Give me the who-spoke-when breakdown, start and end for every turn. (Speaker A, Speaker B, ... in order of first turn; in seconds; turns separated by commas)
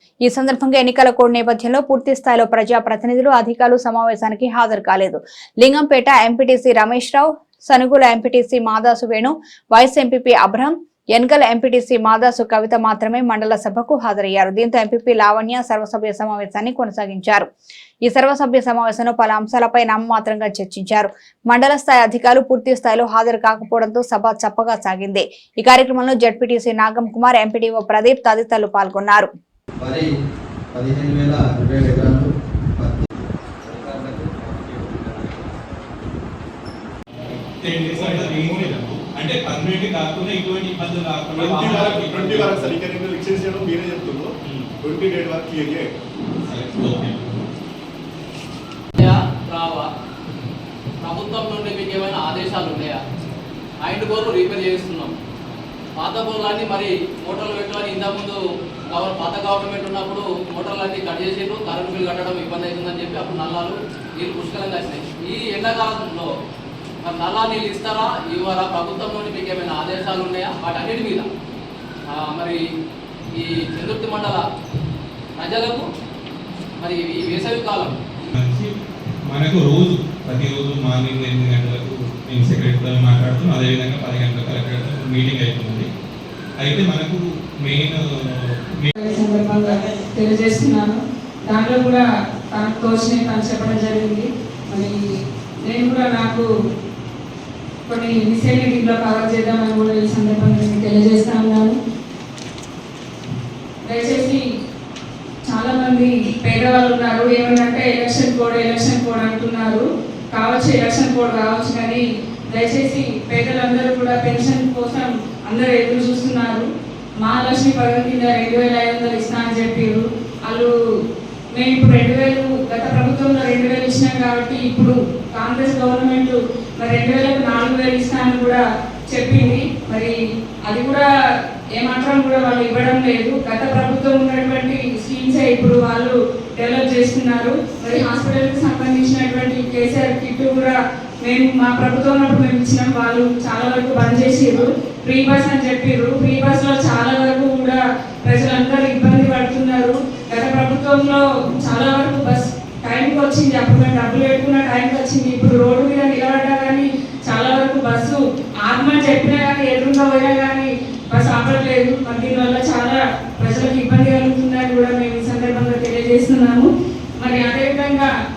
Speaker A: 0.2-17.5, Speaker A: 18.0-29.3, Speaker B: 29.8-30.1, Speaker B: 30.7-33.1, Speaker B: 33.6-35.7, Speaker C: 37.2-42.8, Speaker D: 37.9-38.8, Speaker D: 41.4-45.9, Speaker C: 46.5-47.5, Speaker E: 49.0-49.9, Speaker E: 51.0-53.0, Speaker E: 53.8-55.1, Speaker E: 56.0-58.4, Speaker E: 58.9-66.3, Speaker E: 67.0-71.3, Speaker E: 72.1-72.6, Speaker E: 73.4-74.4, Speaker E: 75.4-75.8, Speaker E: 76.8-78.0, Speaker C: 78.3-78.7, Speaker C: 79.3-85.9, Speaker C: 86.6-88.0, Speaker F: 89.0-95.0, Speaker F: 95.7-96.5, Speaker F: 97.9-101.7, Speaker F: 103.9-104.4, Speaker F: 105.4-116.7, Speaker F: 117.2-120.7, Speaker F: 121.5-131.1, Speaker F: 131.8-166.7, Speaker F: 167.2-168.1